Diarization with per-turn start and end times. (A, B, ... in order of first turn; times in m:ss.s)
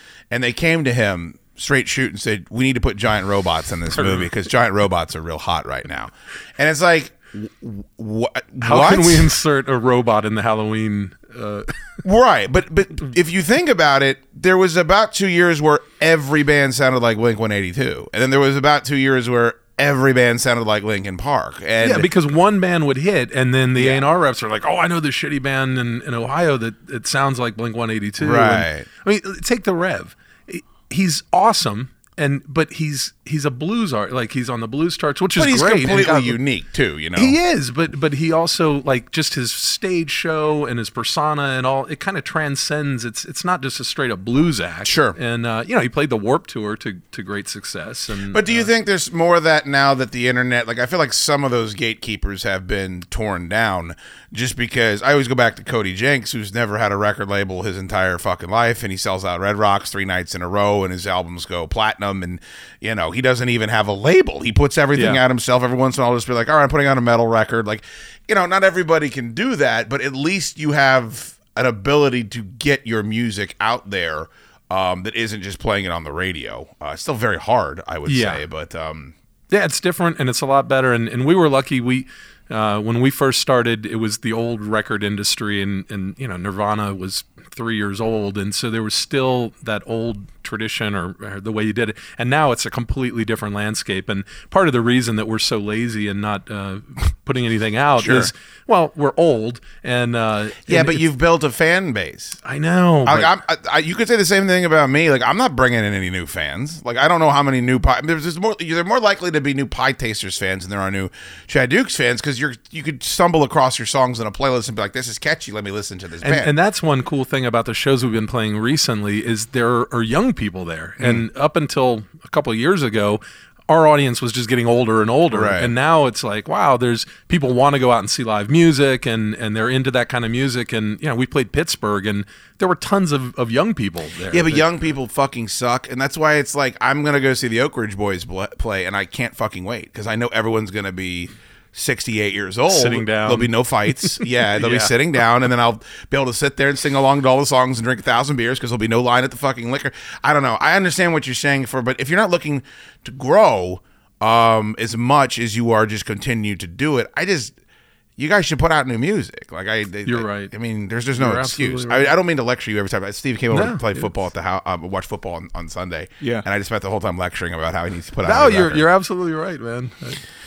0:00.3-0:09.3 A
0:03.9-0:04.3 B
0:08.6-0:11.7 B
0:12.0-0:22.1 A
0:21.8-0:36.4 B
0:23.8-0:24.0 A
0:28.2-0:28.9 A
0:35.4-0:37.4 A
0:37.1-0:48.7 B
0:44.8-0:45.2 A
0:48.3-1:19.1 A
1:04.9-1:05.2 B
1:18.0-1:18.4 B
1:19.5-1:41.1 B
1:38.0-1:38.3 A
1:40.7-1:42.4 A
1:42.4-1:43.4 B
1:43.0-1:56.5 A
1:56.2-2:14.9 B
2:05.3-2:05.7 A
2:14.3-2:37.5 A
2:22.7-2:25.0 B
2:38.2-2:48.9 A
2:40.0-2:40.5 B
2:41.1-2:42.2 B
2:43.5-2:44.1 B
2:48.2-2:50.2 B